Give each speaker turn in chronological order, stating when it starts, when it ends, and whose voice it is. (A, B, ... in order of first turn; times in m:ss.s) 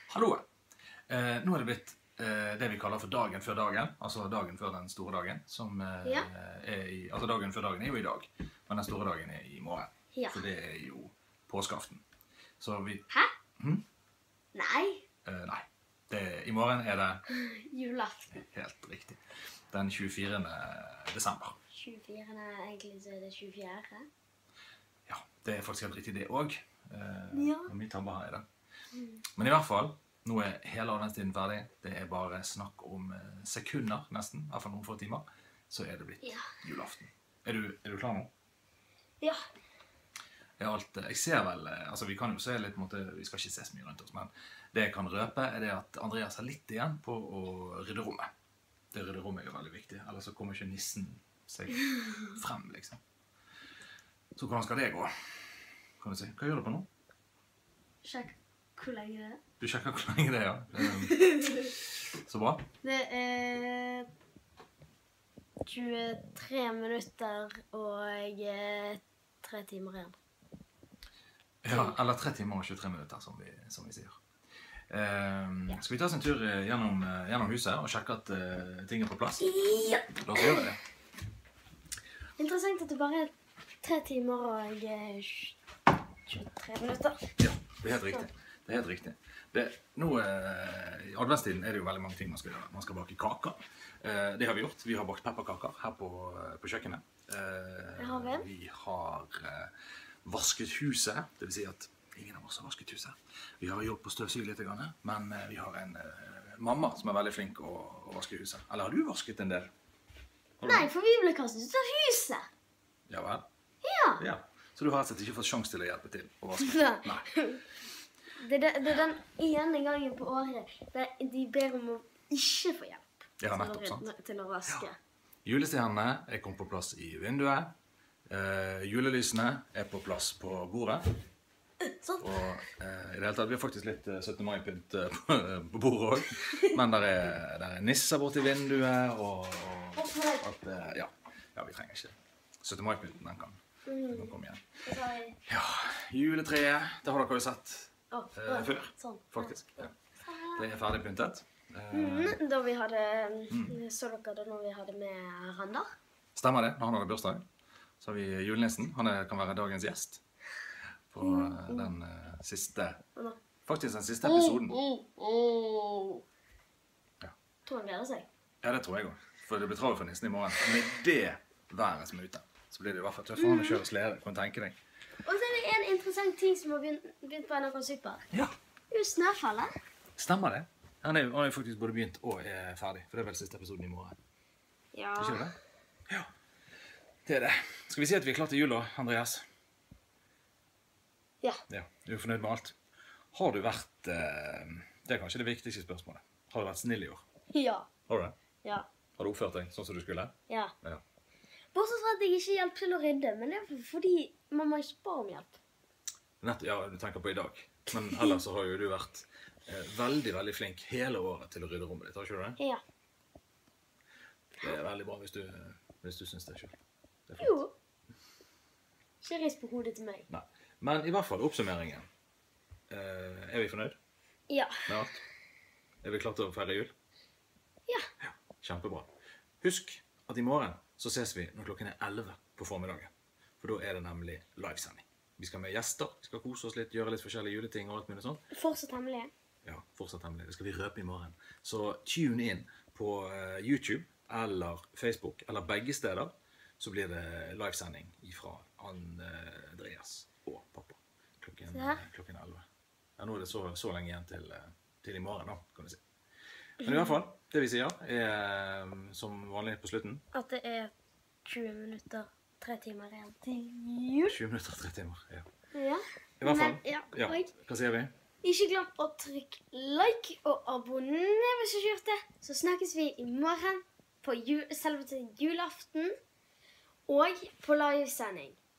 0:00.1-0:00.4 A
0:01.1-0:12.0 A
0:06.0-0:06.3 B
0:10.1-0:10.4 B
0:12.6-0:13.0 A
0:13.6-0:13.8 A
0:14.5-0:15.0 B
0:15.2-0:17.2 A
0:17.3-0:18.4 B
0:18.3-0:19.2 A
0:19.7-0:21.6 A
0:21.7-0:24.1 B
0:25.1-0:28.4 A
0:27.3-0:27.7 B
0:28.9-0:29.2 B
0:29.4-0:38.3 A
0:36.2-0:36.5 B
0:40.6-0:48.3 A
0:48.9-0:53.0 A
0:54.4-0:56.9 A
0:58.0-0:59.4 B
0:59.6-1:02.6 A
1:00.8-1:01.7 B
1:02.8-1:04.1 B
1:05.6-1:10.2 B
1:11.6-1:14.2 A
1:11.7-1:11.9 B
1:14.9-1:19.4 A
1:19.4-1:20.6 B
1:20.2-1:20.8 A
1:22.4-1:23.3 B
1:23.8-1:25.6 B
1:26.3-1:27.3 B
1:27.4-1:39.7 A
1:27.9-1:28.2 B
1:38.0-1:38.5 B
1:40.2-1:49.7 A
1:50.6-1:50.9 A
1:50.6-1:52.5 B
1:53.1-1:53.4 A
1:53.8-1:54.2 B
1:54.2-1:57.3 A
1:56.6-1:57.6 B
1:58.4-2:05.0 B
2:03.4-2:04.1 A
2:05.4-2:07.7 A
2:08.3-2:11.0 A
2:11.8-2:12.3 B
2:12.2-2:23.6 A
2:16.5-2:16.7 B
2:20.0-2:20.4 B
2:23.8-2:25.4 B
2:24.1-2:24.8 A
2:25.4-2:29.9 A
2:28.1-2:30.7 B
2:30.6-2:32.4 A
2:31.9-2:35.9 B
2:33.5-2:33.8 A
2:36.4-2:37.4 A
2:38.0-2:40.2 A
2:41.1-2:43.0 A
2:41.2-2:41.9 B
2:43.7-2:44.8 A
2:44.2-2:46.2 B
2:47.7-2:48.3 B
2:48.6-2:54.8 A
2:53.4-2:53.8 B
2:55.2-2:58.2 B
2:58.9-2:59.7 B
3:00.2-3:04.2 A
3:04.9-3:05.4 B
3:05.2-3:05.6 A
3:07.2-3:09.4 A
3:11.7-3:12.8 A
3:13.3-3:17.2 A
3:17.5-3:17.9 B
3:18.1-3:18.3 A
3:19.2-3:21.0 A
3:21.7-3:25.6 B
3:26.4-3:32.6 A
3:27.9-3:28.4 B
3:34.6-3:36.7 A
3:37.3-3:37.6 A
3:37.4-3:37.7 B
3:39.2-3:40.2 B
3:40.3-3:42.1 A
3:42.9-3:44.0 A
3:44.5-3:44.9 B
3:44.9-3:45.2 A
3:46.0-3:46.9 A
3:48.2-3:49.1 A
3:49.6-3:58.4 A
3:58.5-3:59.3 B
3:59.6-4:12.6 A
4:11.7-4:12.0 B
4:13.2-4:16.0 A
4:16.8-4:20.2 A
4:16.8-4:17.2 B
4:20.3-4:20.9 B
4:21.4-4:24.4 B
4:24.3-4:25.4 A
4:25.7-4:27.5 B
4:26.4-4:28.1 A
4:28.4-4:36.1 B
4:37.1-4:38.6 B